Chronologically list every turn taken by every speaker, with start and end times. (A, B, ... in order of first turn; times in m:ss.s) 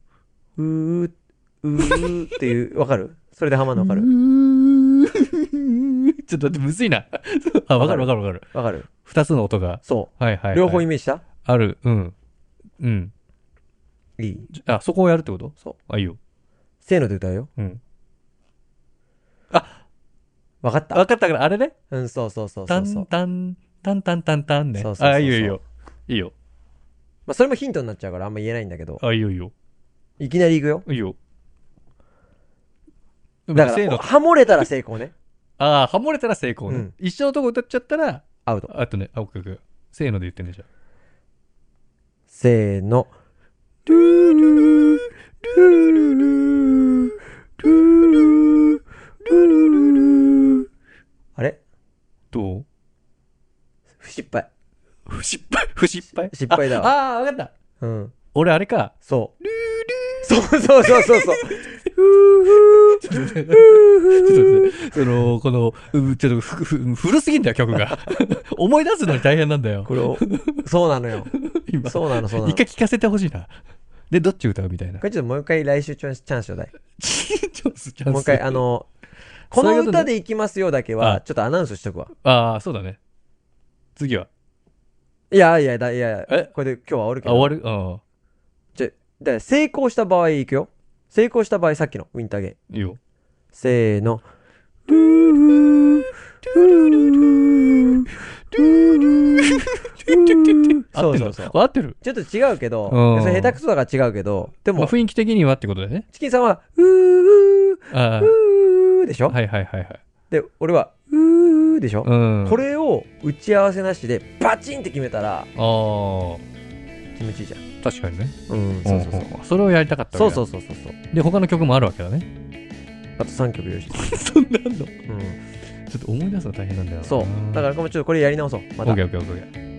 0:00.6-0:04.1 A
0:01.8-0:02.1 B
0:03.7-0:08.5 B
0:07.8-0:08.9 A
0:09.0-0:10.8 B
0:09.8-0:11.2 A
0:11.4-0:12.1 B
0:12.8-0:13.1 B
0:14.2-0:14.5 A
0:14.5-0:16.2 B
0:16.8-0:17.5 A
0:19.5-0:19.8 B
0:20.6-0:21.0 A
0:20.9-0:21.7 B
0:21.9-0:23.1 A
0:22.7-0:26.3 B
0:24.8-0:25.6 A
0:27.3-0:29.0 A
0:29.0-0:29.5 B
0:30.2-0:30.8 A
0:30.9-0:31.2 B
0:33.5-0:34.0 B
0:33.5-0:35.1 A
0:35.6-0:40.6 B
0:38.4-0:38.7 A
0:42.3-0:43.1 A
0:43.9-0:46.1 A
0:43.9-0:44.6 B
0:45.6-0:46.2 B
0:47.6-0:48.7 A
0:49.2-0:50.5 A
0:49.3-0:50.0 B
0:52.3-0:52.6 B
0:54.0-0:54.5 A
0:55.1-0:57.5 B
0:56.2-0:56.9 A
0:57.8-0:58.1 A
0:58.3-0:58.9 B
0:59.0-0:59.3 A
0:59.4-1:00.3 B
1:00.2-1:05.3 A
1:00.8-1:01.9 B
1:02.4-1:10.6 B
1:09.8-1:11.3 A
1:11.3-1:13.5 B
1:11.8-1:12.7 A
1:14.1-1:15.0 B
1:15.0-1:16.7 A
1:17.0-1:18.6 B
1:18.1-1:18.9 A
1:19.5-1:22.1 A
1:19.5-1:20.1 B
1:22.2-1:23.0 B
1:24.0-1:24.3 B
1:25.3-1:27.6 A
1:27.2-1:28.0 B
1:28.8-1:32.6 A
1:32.7-1:33.0 B
1:33.5-1:34.2 A
1:34.9-1:44.9 A
1:39.4-1:42.0 B
1:42.9-1:43.6 B
1:44.8-1:46.0 B
1:46.1-1:49.4 A
1:47.9-1:48.4 B
1:49.3-1:50.0 B
1:50.3-1:55.5 A
1:52.0-1:52.6 B
1:55.6-1:56.4 B
1:57.2-1:57.6 A
1:57.8-2:00.4 B
1:58.5-1:59.3 A
2:00.1-2:01.0 A
2:01.1-2:02.3 B
2:03.2-2:04.2 A
2:03.9-2:04.9 B
2:05.1-2:05.4 A
2:05.8-2:07.7 B
2:07.0-2:09.0 A
2:08.8-2:09.5 B